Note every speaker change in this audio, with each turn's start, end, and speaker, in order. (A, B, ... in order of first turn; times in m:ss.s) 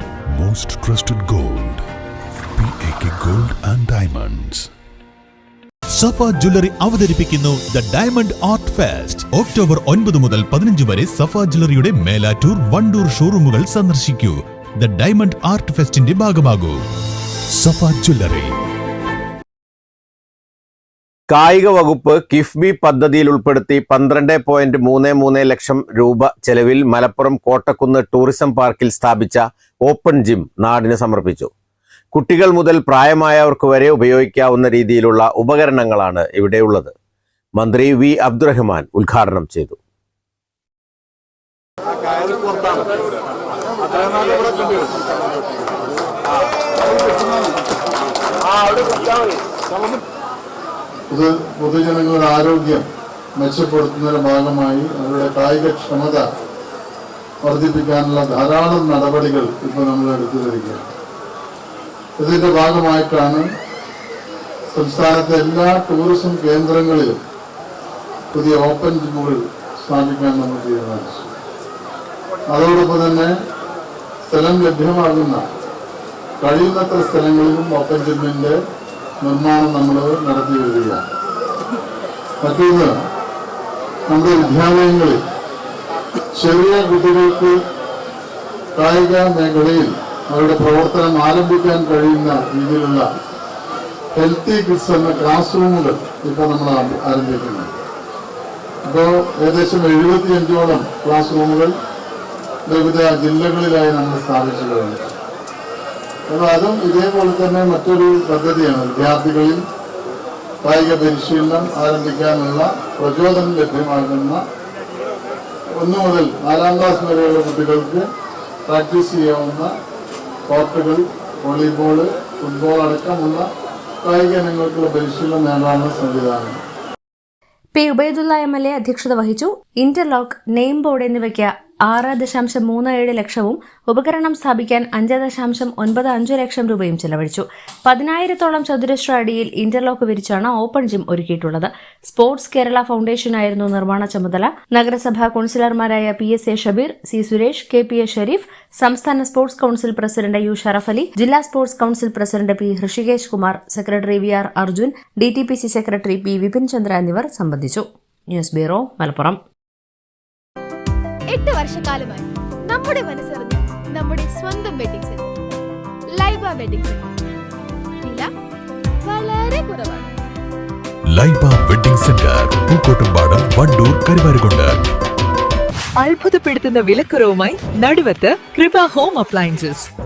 0:00.4-0:01.8 A
0:00.4-0:01.6 B
0:02.6-0:04.6 B
0:03.3-0:04.6 A
0:05.9-0:16.8 B
0:17.6-0:18.6 B
0:21.3-0:31.5 C
0:32.1-0:36.9 C
0:37.6-0:39.8 C
0:51.1-0:52.8 D
0:53.4-0:56.2 D
0:57.4-1:00.9 D
1:02.2-1:03.5 D
1:04.7-1:07.2 D
1:08.3-1:11.3 D
1:12.5-1:13.3 D
1:14.3-1:15.4 D
1:16.4-1:18.6 D
1:19.2-1:21.0 D
1:22.4-1:22.9 D
1:24.1-1:25.2 D
1:26.3-1:27.6 D
1:28.8-1:33.1 D
1:34.2-1:37.8 D
1:38.8-1:41.7 D
1:42.7-1:45.1 D
1:46.3-1:49.6 D
1:50.6-1:54.4 D
1:55.8-1:58.0 D
1:58.7-1:59.7 D
2:00.5-2:03.5 D
2:04.0-2:06.6 D
2:07.8-2:39.4 E
2:41.3-2:45.3 F
2:46.1-2:47.1 F
2:48.0-2:48.3 F
2:49.0-2:50.1 F
2:51.1-2:54.9 A
2:56.0-2:59.9 G